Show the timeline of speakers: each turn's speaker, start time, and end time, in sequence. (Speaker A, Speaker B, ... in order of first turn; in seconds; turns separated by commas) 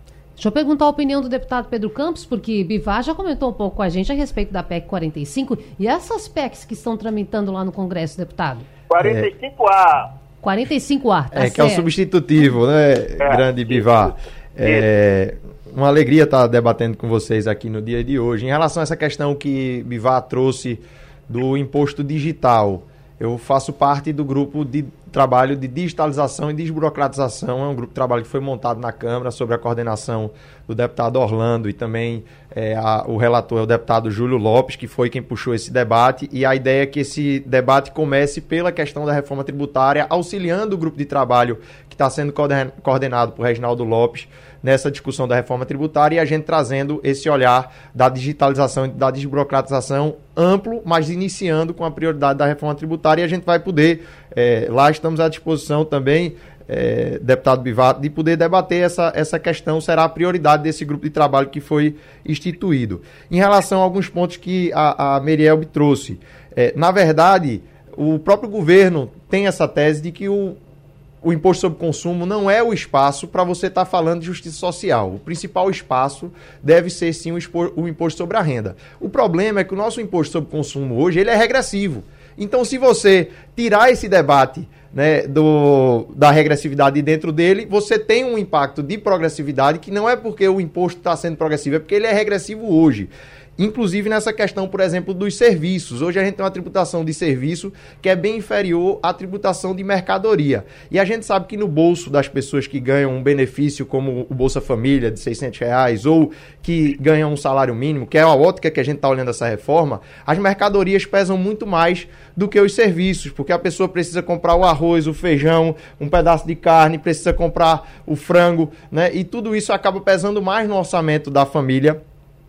Speaker A: 0.4-8.7, Speaker B: 8.9-10.1, Speaker C: 9.0-9.3, Speaker A: 10.4-11.9, Speaker C: 11.3-70.6, Speaker B: 13.2-14.1, Speaker B: 14.6-14.9, Speaker C: 71.2-122.0